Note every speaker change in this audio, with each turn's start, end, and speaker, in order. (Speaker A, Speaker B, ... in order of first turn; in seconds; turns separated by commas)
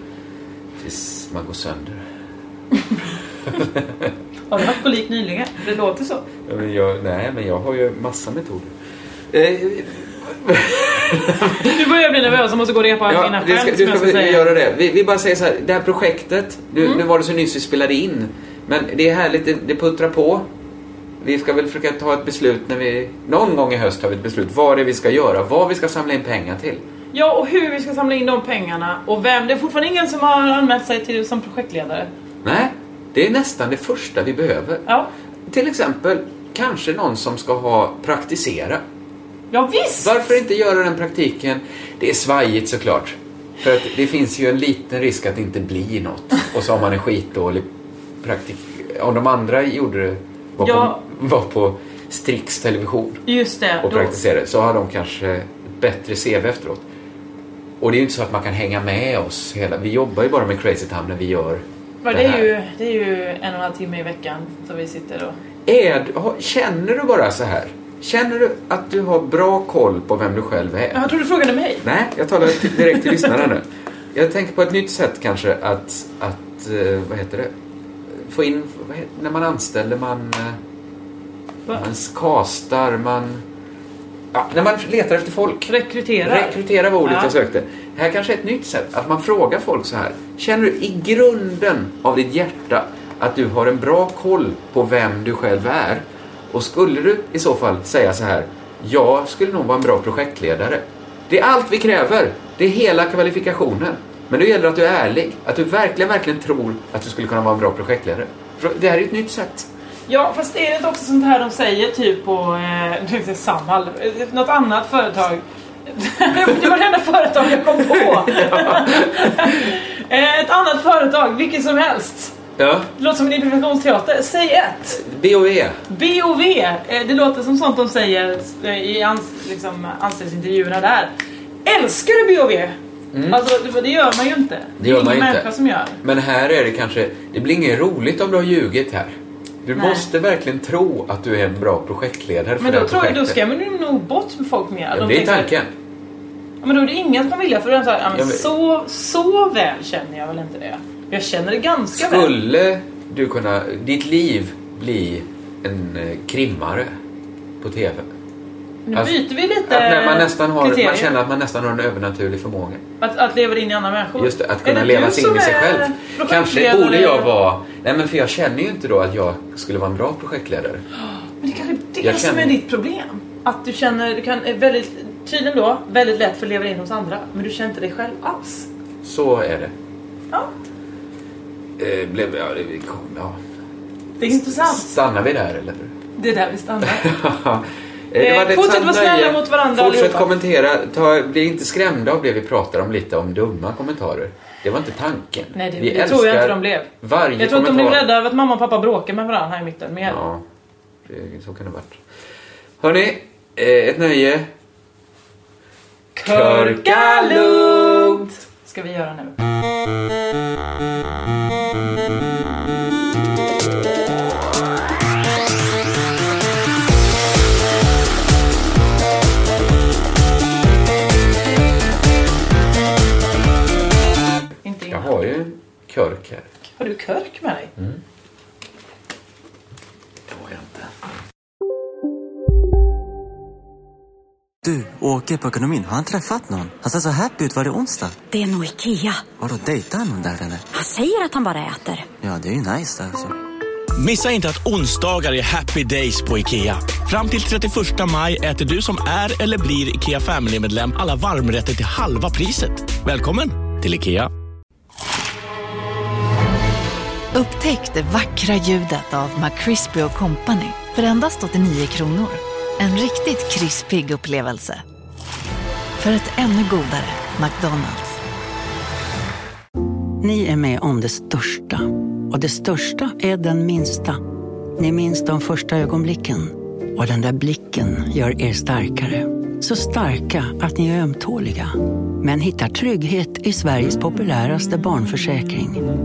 Speaker A: 0.8-2.0, Speaker A: 3.5-4.1, Speaker B: 4.5-6.3, Speaker A: 6.4-8.7, Speaker A: 9.3-11.8, Speaker B: 11.6-14.5, Speaker A: 13.1-20.5, Speaker A: 21.2-26.8, Speaker B: 27.1-32.1, Speaker A: 32.4-34.8, Speaker A: 35.5-38.8, Speaker B: 39.5-40.1, Speaker A: 40.0-47.7, Speaker A: 48.2-53.2, Speaker B: 50.6-51.0, Speaker B: 53.3-54.2, Speaker A: 53.8-56.9, Speaker A: 57.8-62.5, Speaker B: 62.0-65.4, Speaker A: 65.7-71.0, Speaker B: 70.9-71.8, Speaker A: 71.8-77.5, Speaker B: 72.4-73.4, Speaker A: 78.1-80.6, Speaker A: 81.7-83.4, Speaker A: 84.3-109.7, Speaker B: 85.7-87.3, Speaker B: 110.1-122.3, Speaker A: 117.6-119.7, Speaker A: 122.6-122.9, Speaker B: 123.0-125.0, Speaker A: 125.0-125.8, Speaker B: 125.9-131.1, Speaker B: 131.6-132.7, Speaker A: 133.1-133.4, Speaker B: 133.3-136.0, Speaker A: 134.8-135.5, Speaker A: 136.0-143.4, Speaker B: 139.7-140.1, Speaker B: 142.6-145.5, Speaker A: 144.9-145.7, Speaker B: 146.6-152.3, Speaker A: 148.1-148.5, Speaker A: 151.9-156.9, Speaker A: 157.6-158.1, Speaker B: 158.8-161.1, Speaker A: 158.9-162.8, Speaker B: 163.0-167.3, Speaker A: 164.2-170.8, Speaker B: 171.0-178.7, Speaker A: 172.0-172.6, Speaker A: 179.0-179.7, Speaker A: 181.8-183.4, Speaker B: 184.2-184.9, Speaker A: 184.2-185.9, Speaker B: 186.2-187.1, Speaker A: 186.8-198.1, Speaker B: 188.2-190.3, Speaker B: 195.5-200.2, Speaker A: 200.0-200.4, Speaker A: 201.0-202.0, Speaker A: 202.8-204.5, Speaker B: 206.1-209.4, Speaker A: 206.2-208.2, Speaker B: 224.6-225.1, Speaker A: 224.9-226.5, Speaker B: 226.8-227.7, Speaker A: 230.3-230.9, Speaker C: 234.6-238.2, Speaker D: 238.3-239.3, Speaker C: 239.3-240.7, Speaker D: 240.7-242.1, Speaker C: 242.2-243.3, Speaker E: 243.9-254.3, Speaker F: 257.3-264.8, Speaker F: 266.0-268.1, Speaker G: 270.2-274.2, Speaker G: 274.8-285.8